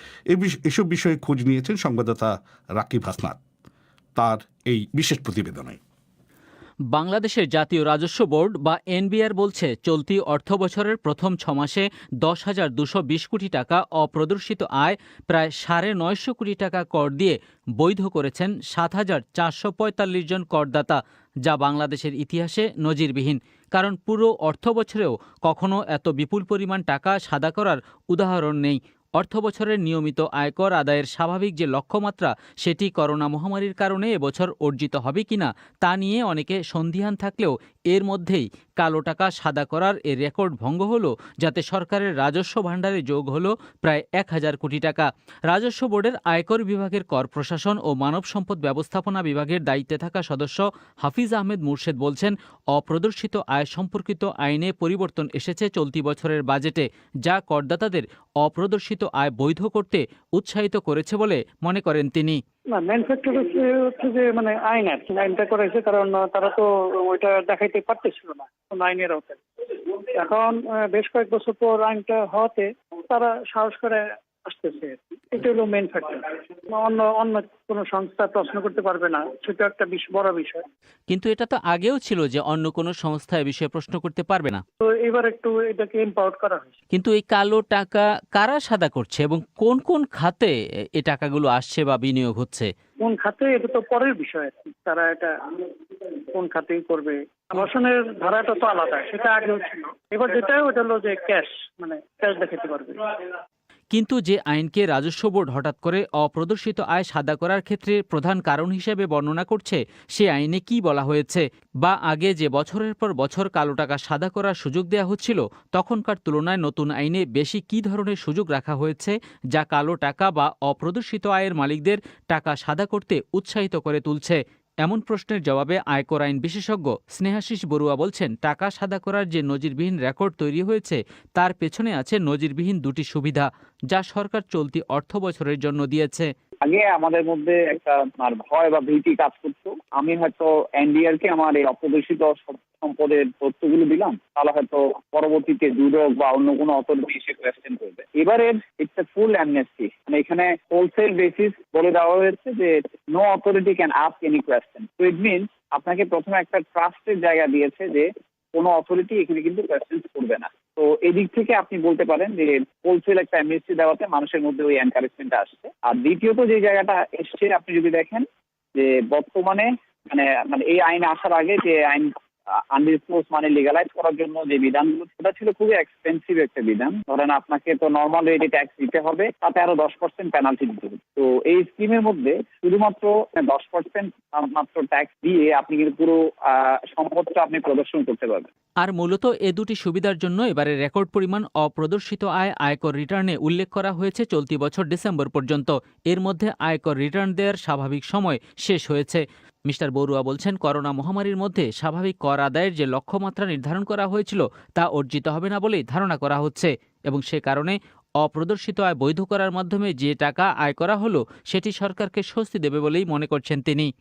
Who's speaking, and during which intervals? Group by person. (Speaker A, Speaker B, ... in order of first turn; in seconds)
Speaker A: 0.3-3.4, 4.2-5.8
Speaker B: 6.9-62.4, 81.1-84.6, 86.9-92.7, 103.9-136.3, 188.8-213.9
Speaker C: 62.8-69.4, 70.2-80.6, 84.8-86.7, 93.0-95.3, 96.3-103.1
Speaker D: 136.7-172.1, 172.7-188.5